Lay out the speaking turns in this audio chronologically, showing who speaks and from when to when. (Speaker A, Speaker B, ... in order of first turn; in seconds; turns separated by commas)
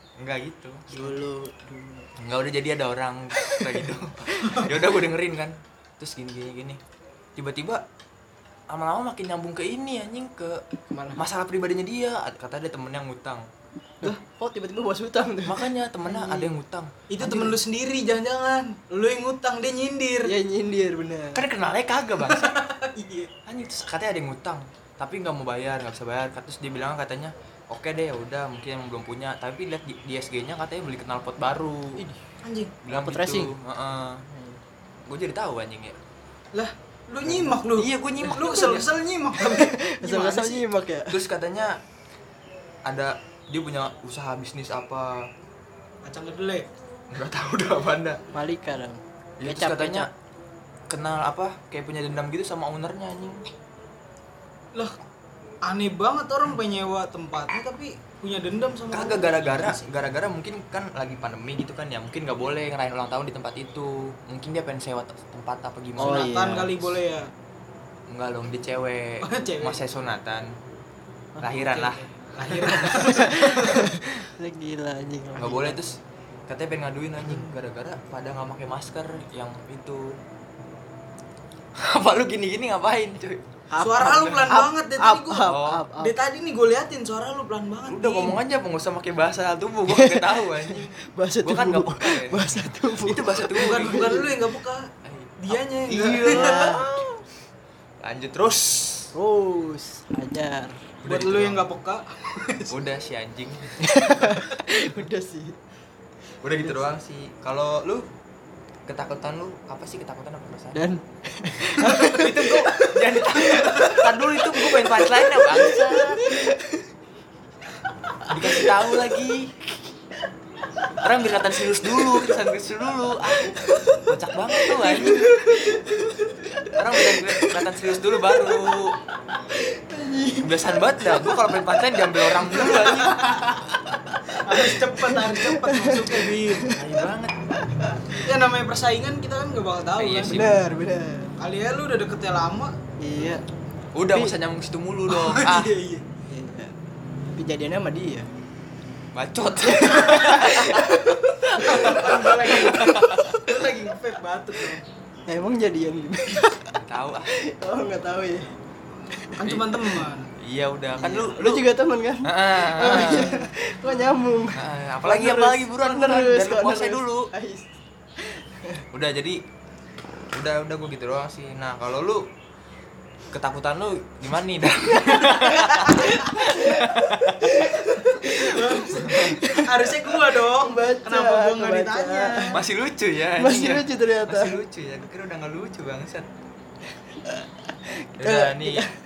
Speaker A: 0.2-1.1, Speaker B: 0.9-2.1, Speaker A: 2.2-6.8, Speaker A: 7.3-7.8, Speaker A: 8.7-10.6, Speaker B: 10.9-11.2, Speaker A: 11.2-13.5, Speaker B: 14.0-16.5, Speaker A: 15.4-17.5, Speaker C: 17.1-20.3, Speaker B: 20.2-21.4, Speaker A: 21.3-22.6, Speaker C: 22.2-23.3, Speaker A: 23.4-32.0, Speaker C: 32.4-32.8, Speaker A: 32.8-34.2, Speaker B: 32.9-33.5, Speaker B: 34.3-34.6, Speaker A: 35.0-36.0, Speaker C: 36.5-40.6, Speaker A: 37.2-38.8, Speaker B: 39.4-41.2, Speaker A: 41.1-41.8, Speaker A: 42.9-45.3, Speaker C: 46.0-46.6, Speaker A: 47.1-48.2, Speaker B: 48.3-50.1, Speaker A: 49.4-50.1, Speaker A: 50.9-53.4, Speaker C: 55.6-59.9, Speaker A: 58.9-66.3, Speaker B: 66.0-66.7, Speaker C: 66.0-67.3, Speaker A: 68.1-70.5, Speaker C: 69.2-69.8, Speaker A: 71.4-72.7, Speaker C: 71.5-73.9, Speaker B: 72.6-75.8, Speaker A: 75.3-80.1, Speaker A: 81.8-83.4, Speaker B: 83.7-86.1, Speaker C: 83.8-88.4, Speaker A: 84.0-84.4, Speaker A: 85.4-85.8, Speaker A: 87.9-94.2, Speaker B: 89.9-94.3, Speaker C: 93.5-94.9, Speaker A: 95.0-97.1, Speaker C: 95.4-96.7, Speaker B: 96.3-96.9, Speaker A: 98.0-99.1, Speaker B: 99.1-100.8, Speaker A: 101.0-101.7, Speaker C: 101.0-102.8, Speaker A: 102.7-104.8, Speaker B: 103.8-105.5, Speaker A: 106.4-108.0, Speaker A: 108.9-110.8, Speaker B: 110.7-112.5, Speaker C: 111.8-112.9, Speaker A: 112.2-116.5, Speaker B: 113.4-113.9, Speaker C: 113.5-114.0, Speaker B: 114.4-116.8, Speaker B: 118.2-118.7, Speaker A: 118.2-119.5, Speaker A: 121.0-125.7, Speaker B: 124.6-127.6, Speaker A: 126.7-128.9, Speaker B: 128.3-128.7, Speaker B: 129.5-131.5, Speaker A: 130.4-133.7, Speaker B: 132.6-132.9, Speaker C: 132.7-133.4, Speaker B: 133.9-136.8, Speaker C: 134.3-136.8, Speaker A: 136.7-137.4, Speaker B: 137.7-138.1, Speaker C: 138.2-140.5, Speaker A: 140.0-140.6, Speaker B: 140.3-141.3, Speaker C: 141.4-142.8, Speaker B: 143.0-143.4, Speaker A: 143.9-145.7, Speaker C: 145.1-146.0, Speaker B: 146.3-146.7, Speaker B: 147.3-148.3, Speaker A: 149.1-153.4, Speaker B: 149.8-153.5, Speaker C: 151.6-154.8, Speaker B: 155.3-158.5, Speaker A: 156.8-157.3, Speaker C: 159.3-160.3, Speaker A: 159.4-159.8, Speaker A: 160.4-161.7, Speaker B: 160.9-167.7, Speaker A: 162.2-163.4, Speaker A: 164.5-167.3, Speaker B: 168.2-168.8, Speaker A: 168.9-169.4, Speaker A: 170.3-172.2, Speaker A: 173.3-177.7, Speaker B: 175.2-182.5, Speaker C: 178.1-182.6, Speaker A: 178.9-179.4, Speaker A: 182.5-186.3, Speaker B: 183.4-184.6, Speaker B: 188.0-188.9, Speaker A: 188.2-188.8